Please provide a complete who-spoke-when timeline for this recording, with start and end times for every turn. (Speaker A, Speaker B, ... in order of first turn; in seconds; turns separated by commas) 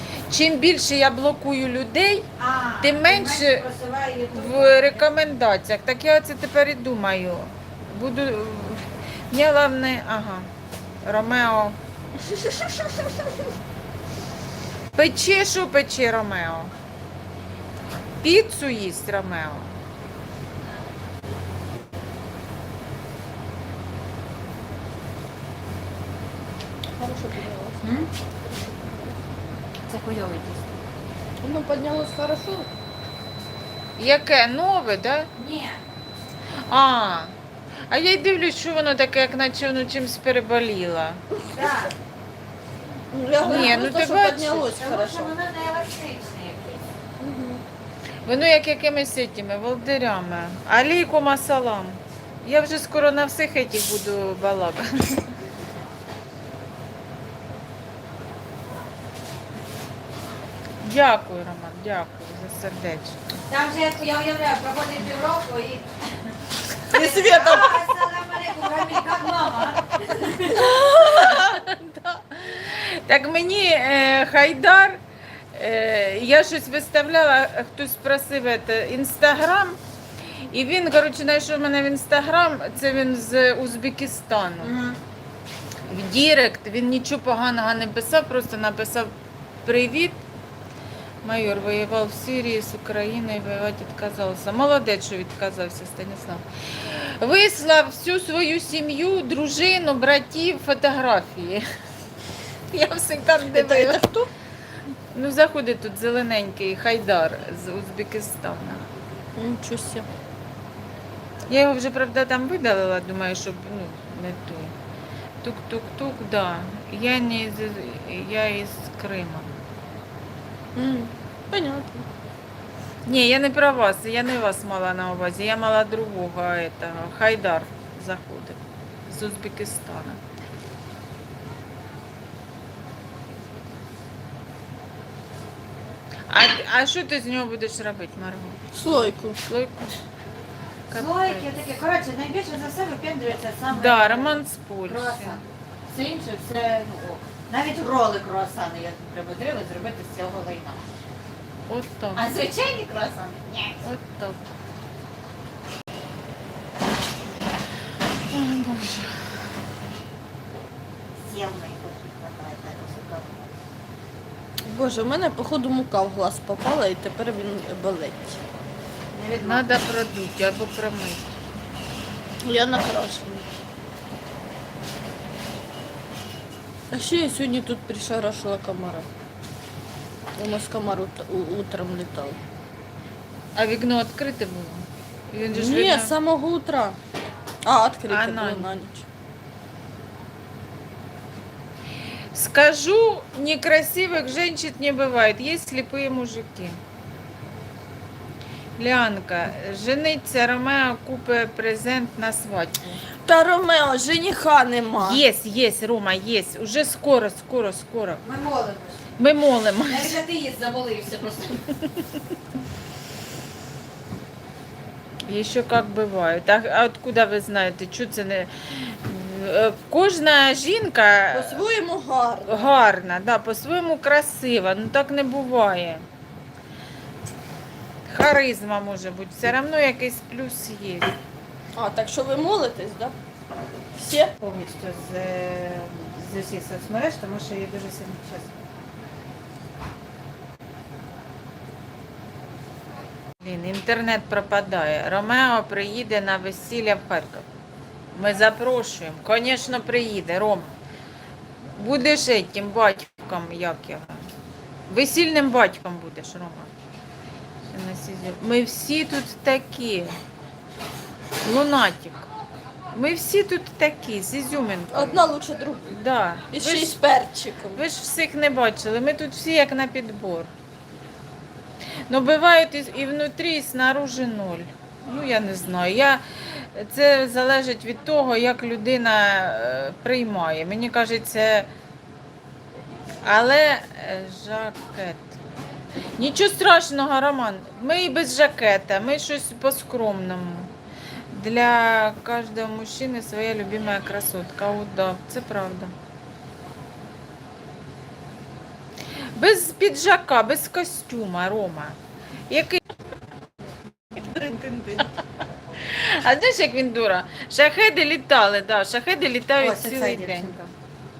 Speaker A: 0.3-2.3, Speaker B: 2.4-5.0, Speaker A: 2.8-3.6, Speaker A: 4.3-10.5, Speaker A: 11.0-11.8, Speaker A: 14.9-16.7, Speaker A: 18.2-19.7, Speaker C: 27.0-27.8, Speaker B: 27.8-28.1, Speaker C: 28.4-29.2, Speaker B: 29.9-30.6, Speaker C: 31.4-32.7, Speaker A: 34.0-35.3, Speaker B: 35.4-35.8, Speaker A: 36.7-37.3, Speaker A: 37.9-41.2, Speaker C: 41.4-41.9, Speaker B: 41.5-41.9, Speaker C: 43.1-45.3, Speaker A: 43.4-44.7, Speaker B: 43.4-43.8, Speaker B: 44.7-46.9, Speaker C: 47.2-47.6, Speaker A: 48.2-55.3, Speaker A: 60.8-63.4, Speaker B: 63.5-65.9, Speaker B: 66.9-70.6, Speaker C: 66.9-67.9, Speaker C: 70.3-71.5, Speaker A: 70.5-75.0, Speaker A: 75.5-79.8, Speaker A: 80.5-84.7, Speaker B: 84.6-85.0, Speaker A: 85.9-89.1, Speaker A: 89.6-90.2, Speaker A: 91.2-101.6, Speaker A: 102.7-104.0, Speaker C: 103.5-104.3, Speaker A: 105.1-108.8, Speaker C: 109.3-110.1, Speaker A: 111.5-114.7, Speaker A: 115.4-119.5, Speaker C: 120.7-122.1, Speaker A: 123.0-130.2, Speaker A: 136.3-138.6, Speaker C: 138.7-139.4, Speaker A: 139.4-140.0, Speaker A: 140.9-141.4, Speaker B: 140.9-150.8, Speaker A: 143.7-145.4, Speaker A: 151.7-152.3, Speaker B: 152.1-153.8, Speaker A: 153.8-154.4, Speaker A: 158.3-159.3, Speaker B: 161.2-163.5, Speaker C: 164.7-168.4, Speaker B: 169.1-169.7, Speaker A: 169.4-171.4, Speaker C: 172.4-173.4, Speaker C: 176.9-179.1, Speaker C: 180.4-182.4, Speaker A: 183.5-186.1, Speaker C: 185.5-187.0, Speaker C: 187.6-189.1, Speaker A: 188.1-188.7, Speaker A: 192.3-196.8, Speaker A: 198.8-202.9, Speaker C: 203.2-205.2, Speaker A: 205.0-208.2, Speaker B: 208.2-209.0, Speaker A: 209.2-210.2, Speaker B: 209.8-211.6, Speaker A: 215.2-221.6, Speaker C: 221.3-222.7, Speaker A: 222.5-226.0, Speaker A: 228.1-231.2, Speaker C: 231.7-233.1, Speaker C: 233.9-234.3, Speaker B: 234.4-238.6, Speaker A: 243.4-247.5, Speaker A: 248.1-250.8, Speaker A: 251.8-254.2, Speaker A: 254.9-256.7, Speaker A: 257.7-260.2, Speaker A: 261.4-262.3, Speaker A: 262.9-265.2, Speaker C: 264.9-265.9, Speaker A: 265.9-267.0, Speaker C: 266.5-267.8, Speaker A: 267.7-270.5, Speaker A: 272.1-281.7, Speaker A: 283.2-285.4, Speaker A: 286.2-290.7, Speaker A: 291.3-295.9, Speaker A: 299.4-302.0, Speaker A: 302.5-302.8, Speaker C: 304.1-305.1, Speaker A: 305.8-310.5, Speaker B: 309.6-310.7